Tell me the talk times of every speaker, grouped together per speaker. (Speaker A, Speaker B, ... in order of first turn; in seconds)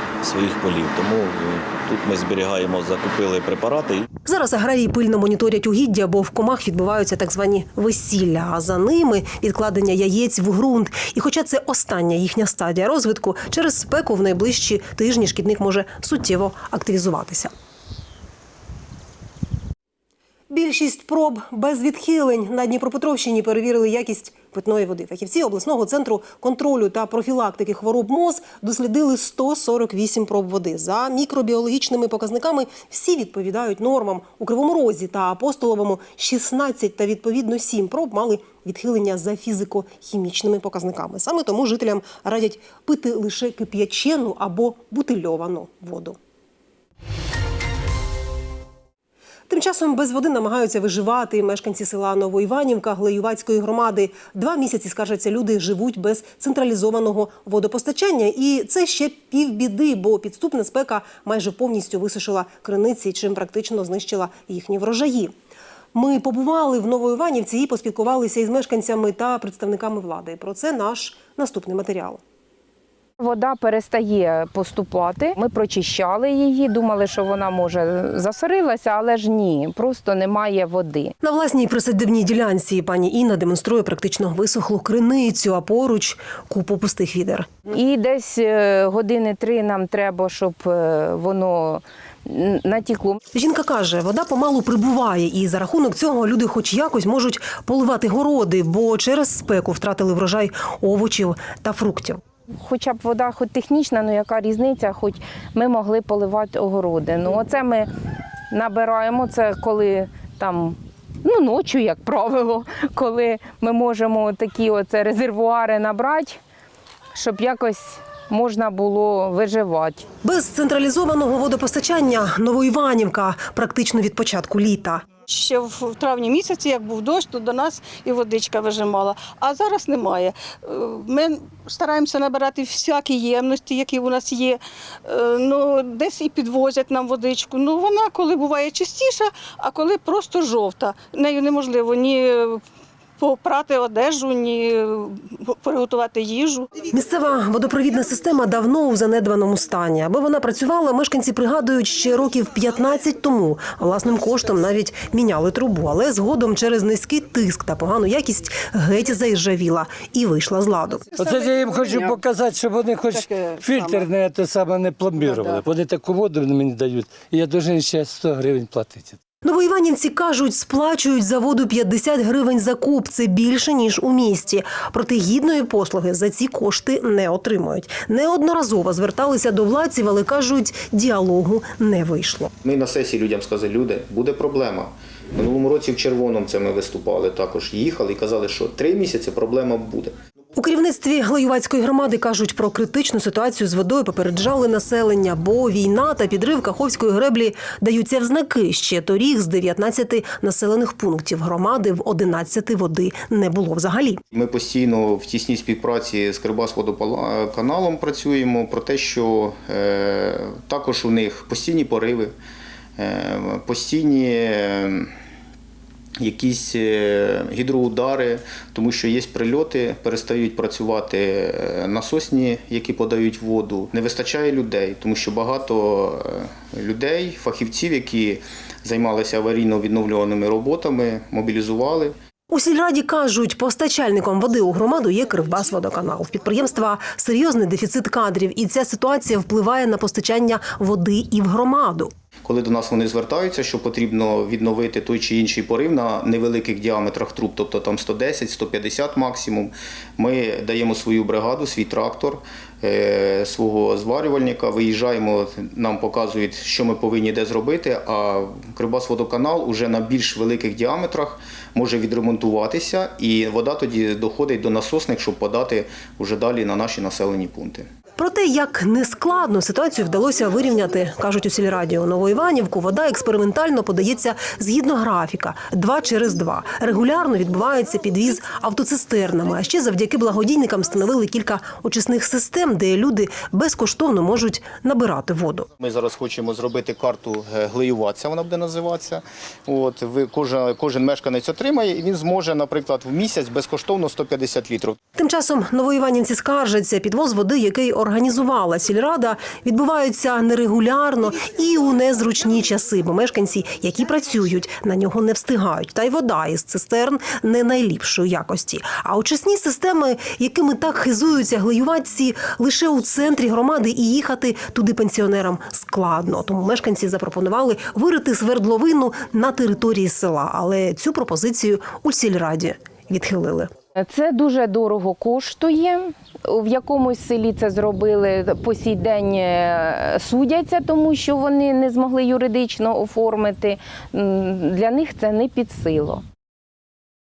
Speaker A: 0.2-4.0
Speaker B: 4.2-17.5, 20.5-46.2, 49.5-65.3, 65.9-72.2, 81.2-87.5, 93.3-102.2, 120.2-125.0, 146.9-161.1, 169.4-182.5, 190.6-204.2, 232.5-242.1, 268.2-285.7, 295.1-323.7
Speaker C: 73.2-81.1, 87.7-93.2, 102.6-107.9, 108.5-116.4, 117.1-120.0, 324.0-336.2
Speaker D: 125.3-142.6, 143.2-146.7, 161.2-162.1, 163.1-164.0
Speaker E: 161.2-169.2
Speaker F: 182.6-190.1, 204.3-212.3, 213.0-215.1, 216.2-232.1, 242.4-267.9, 285.8-295.0